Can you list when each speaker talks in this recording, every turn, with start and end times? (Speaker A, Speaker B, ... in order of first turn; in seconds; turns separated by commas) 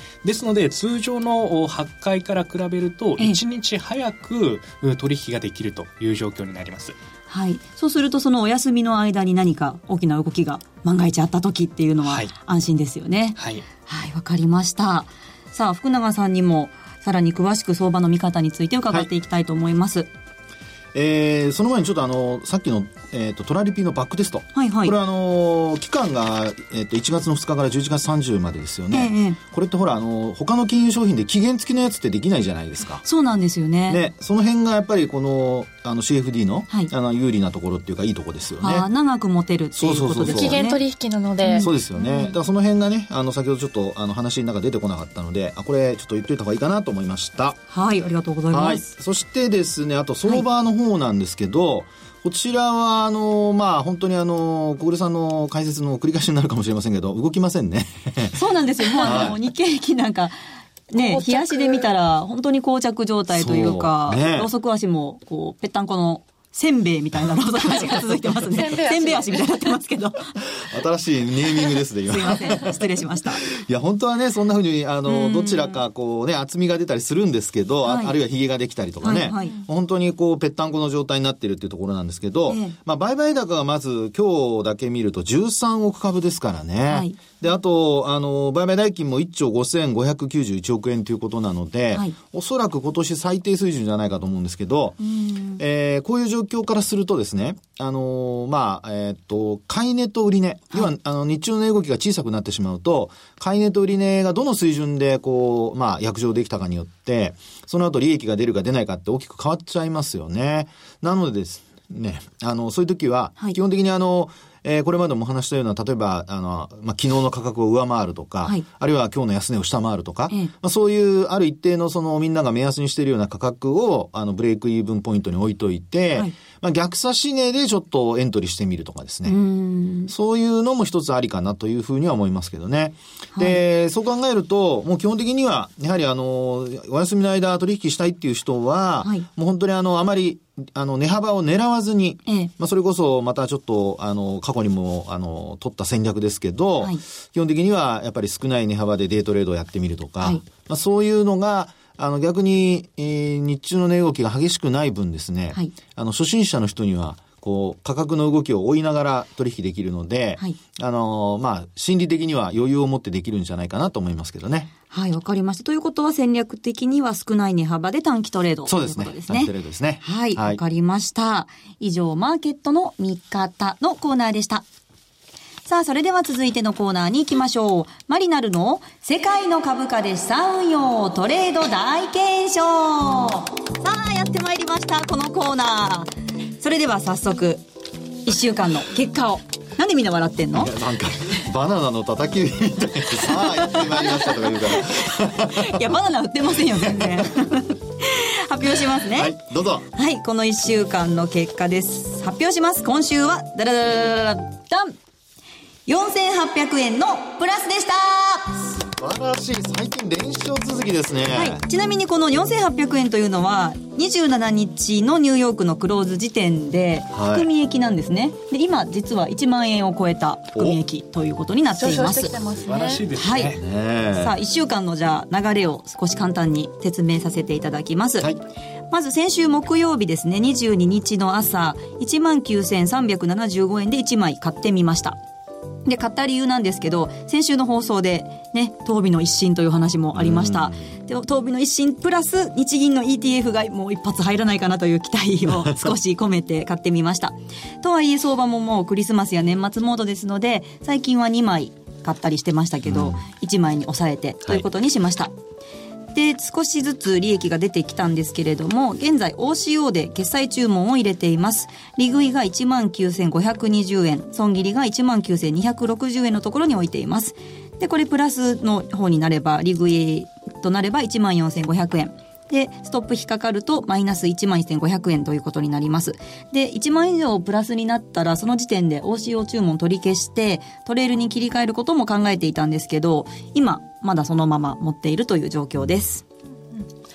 Speaker A: 0.2-7.0, Speaker B: 7.3-20.1, Speaker A: 12.0-12.3, Speaker A: 13.4-13.7, Speaker C: 20.9-33.0, Speaker B: 24.5-24.9, Speaker B: 28.9-29.4, Speaker B: 33.0-34.0, Speaker C: 33.9-38.9, Speaker B: 38.6-40.8, Speaker C: 39.7-40.6, Speaker D: 40.2-42.3, Speaker B: 41.4-41.7, Speaker C: 41.6-47.6, Speaker B: 47.7-48.9, Speaker C: 48.5-58.4, Speaker B: 58.3-60.4, Speaker C: 59.0-59.4, Speaker B: 60.9-70.4, Speaker D: 60.9-61.9, Speaker C: 63.3-64.5, Speaker D: 68.4-69.7, Speaker C: 70.5-72.8, Speaker B: 72.1-73.4, Speaker C: 73.4-95.0, Speaker B: 75.0-75.8, Speaker B: 77.8-78.1, Speaker B: 79.0-79.6, Speaker B: 82.5-82.7, Speaker B: 86.9-87.2, Speaker B: 95.0-95.6, Speaker C: 95.6-129.3, Speaker B: 129.3-130.1, Speaker C: 130.1-164.7, Speaker B: 164.9-174.7, Speaker C: 168.7-170.6, Speaker B: 175.7-187.6, Speaker B: 188.2-190.7, Speaker C: 190.5-195.8, Speaker B: 193.3-199.3, Speaker C: 197.0-197.3, Speaker C: 199.1-199.9, Speaker B: 199.9-204.9, Speaker B: 205.9-208.6, Speaker C: 208.8-211.6, Speaker B: 211.3-222.3, Speaker C: 217.1-217.5, Speaker D: 221.8-223.0, Speaker A: 222.5-223.6, Speaker B: 223.1-223.6, Speaker C: 223.5-224.3, Speaker B: 224.2-228.3, Speaker B: 228.9-235.2, Speaker B: 235.8-255.3, Speaker C: 240.1-240.9, Speaker C: 252.8-253.2, Speaker B: 256.1-286.2